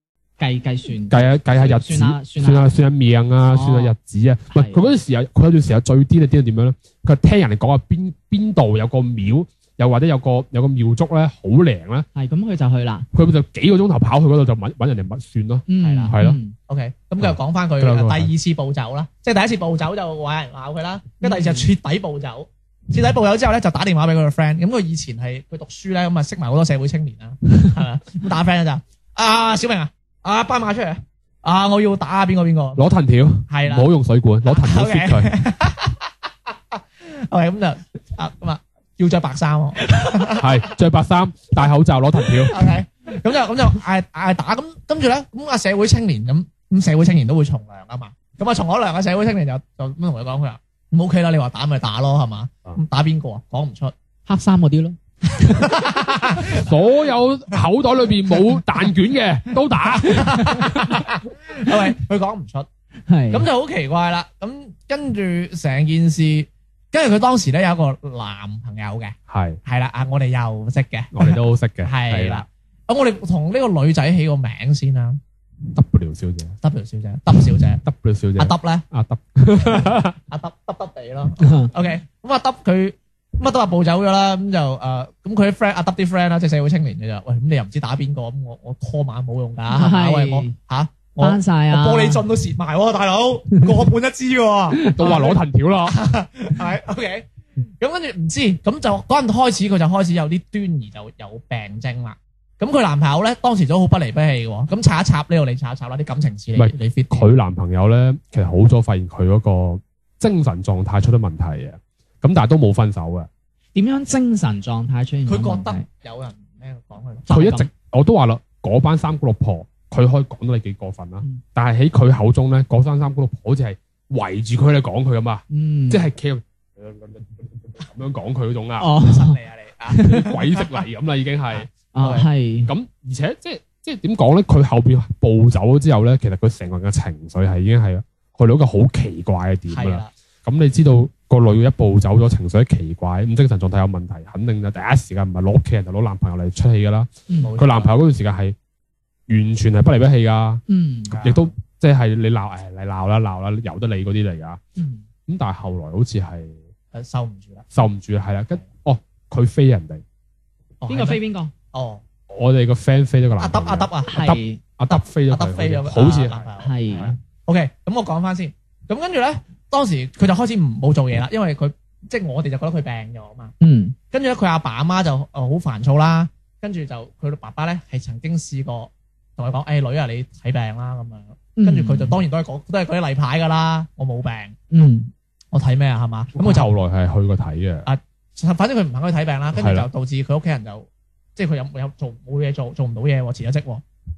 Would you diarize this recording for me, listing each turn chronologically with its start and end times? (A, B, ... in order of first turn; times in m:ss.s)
0:00.4-0:02.8 A
0:01.1-0:12.0 B
0:03.4-0:04.0 A
0:04.5-0:04.8 A
0:12.1-0:13.1 A
0:13.1-0:16.4 B
0:15.7-0:16.5 A
0:15.8-0:16.1 C
0:16.7-0:32.8 C
0:17.2-0:18.3 B
0:21.2-0:21.7 A
0:32.8-0:35.4 B
0:33.5-0:33.9 C
0:34.4-0:36.1 C
0:36.7-0:40.7 C
0:40.4-0:42.6 B
0:42.5-0:53.9 C
0:54.3-0:55.9 A
0:55.4-0:56.7 C
0:56.4-1:01.1 B
0:59.9-1:02.7 C
1:03.1-1:03.5 A
1:03.3-1:15.2 C
1:09.3-1:09.6 B
1:11.1-1:12.4 B
1:15.7-1:16.6 B
1:16.6-1:17.8 C
1:17.8-1:20.2 B
1:18.4-1:18.8 C
1:19.6-1:37.2 C
1:21.4-1:21.7 A
1:29.7-1:30.5 A
1:31.2-1:32.2 A
1:34.9-1:36.0 B
1:37.8-1:47.3 C
1:46.6-1:53.3 B
1:53.7-1:55.8 A
1:55.3-1:57.6 C
1:57.3-2:08.9 B
2:05.5-2:06.0 A
2:08.8-2:09.4 A
2:09.0-2:10.8 C
2:09.9-2:10.3 A
2:10.0-2:11.7 B
2:11.5-2:12.3 C
2:11.9-2:12.7 A
2:12.7-2:28.6 B
2:19.7-2:20.1 C
2:27.3-2:27.5 A
2:27.4-2:27.9 C
2:29.3-2:30.6 B
2:30.7-2:31.2 A
2:31.1-2:31.5 C
2:31.2-2:34.6 B
2:34.8-2:35.0 A
2:35.3-2:36.6 B
2:36.9-2:37.7 C
2:37.7-2:40.0 B
2:40.8-2:41.2 C
2:40.9-2:41.5 A
2:41.7-2:42.0 C
2:42.3-2:46.5 B
2:43.4-2:44.3 C
2:44.1-2:44.6 A
2:44.9-2:53.5 C
2:46.6-2:47.2 A
2:53.6-2:54.0 A
2:54.1-3:04.7 C
3:01.6-3:02.2 A
3:04.7-3:05.1 A
3:05.5-3:06.7 C
3:06.3-3:07.9 B
3:07.8-3:13.8 C
3:09.5-3:09.9 B